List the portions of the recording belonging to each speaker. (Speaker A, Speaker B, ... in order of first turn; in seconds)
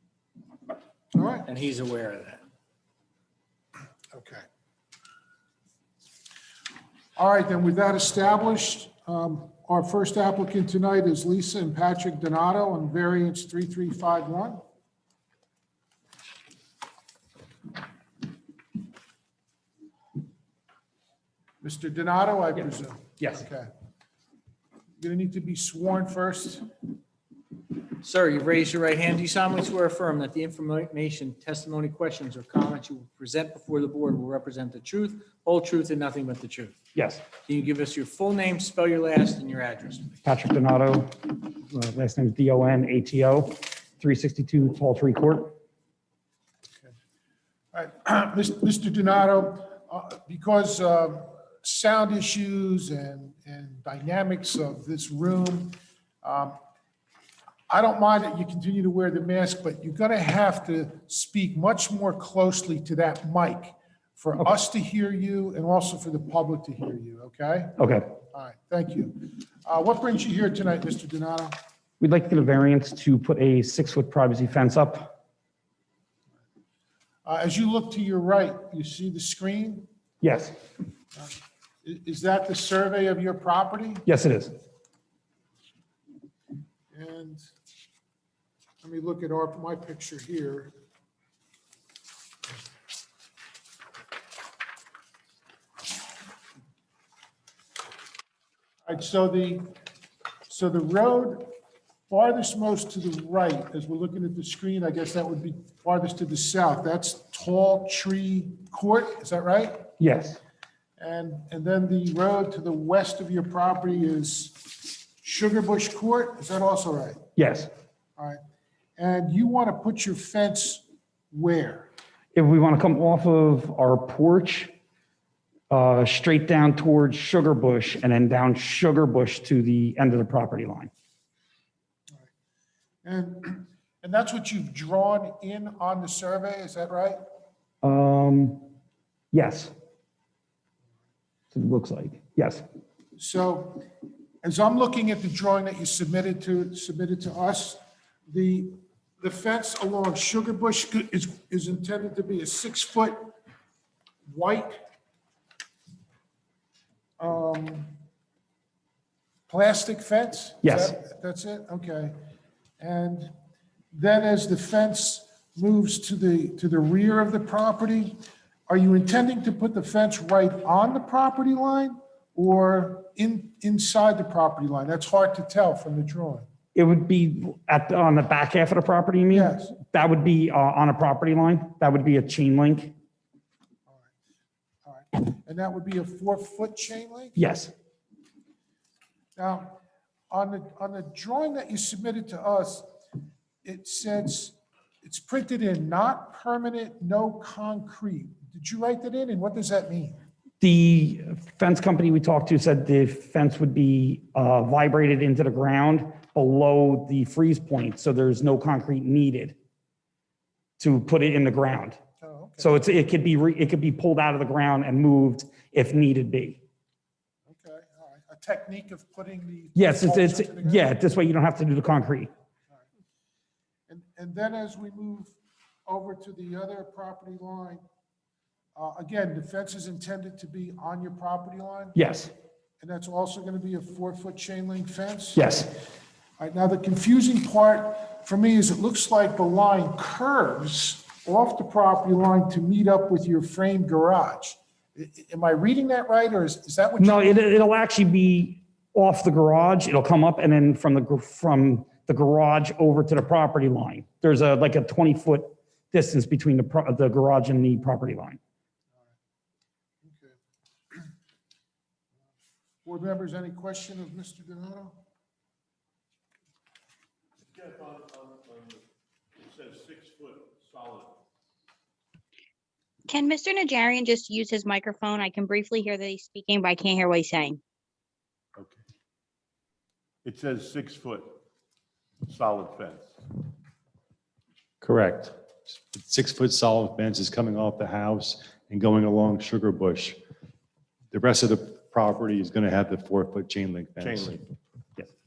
Speaker A: 1.1-1.4, 4.1-4.4, 7.2-14.6, 21.6-23.7, 25.0-26.6, 47.7-56.5, 57.7-71.5, 77.2-79.9, 81.8-84.0, 86.9-87.4, 88.8-90.7, 98.9-99.7, 100.5-101.5, 102.1-109.9, 111.0-117.2, 119.0-121.9, 133.0-137.2, 143.2-143.8, 144.4-153.3, 154.3-154.8, 157.2-157.9, 159.5-162.2, 162.8-163.3, 163.9-176.5, 179.3-179.7, 183.9-184.1, 184.8-187.4, 189.3-189.8, 190.3-192.9, 193.6-200.2, 212.2-212.7, 217.5-220.9, 223.9-227.8, 228.8-232.0, 232.8-235.5, 236.4-247.3, 260.0-260.4, 262.8-265.0
Speaker B: 1.5-2.4, 28.0-36.7, 37.5-40.1
Speaker C: 36.9-37.2, 40.2-45.5, 67.8-68.1, 72.0-75.1, 80.2-80.5, 84.1-84.5, 110.0-110.4, 117.4-117.7, 122.3-124.7, 125.7-130.9, 137.8-138.7, 139.3-139.7, 141.5-142.6, 160.6-160.9, 176.7-182.9, 187.4-187.7, 200.6-209.6, 210.8-212.0, 212.6-216.6, 219.8-222.3, 231.9-232.3, 235.3-235.7, 247.0-258.4
Speaker D: 267.5-268.8, 269.4-271.1, 280.2-281.4, 282.2-283.1, 294.0-294.4
Speaker E: 273.1-277.6
Speaker F: 284.8-285.3, 285.9-290.1, 291.1-294.2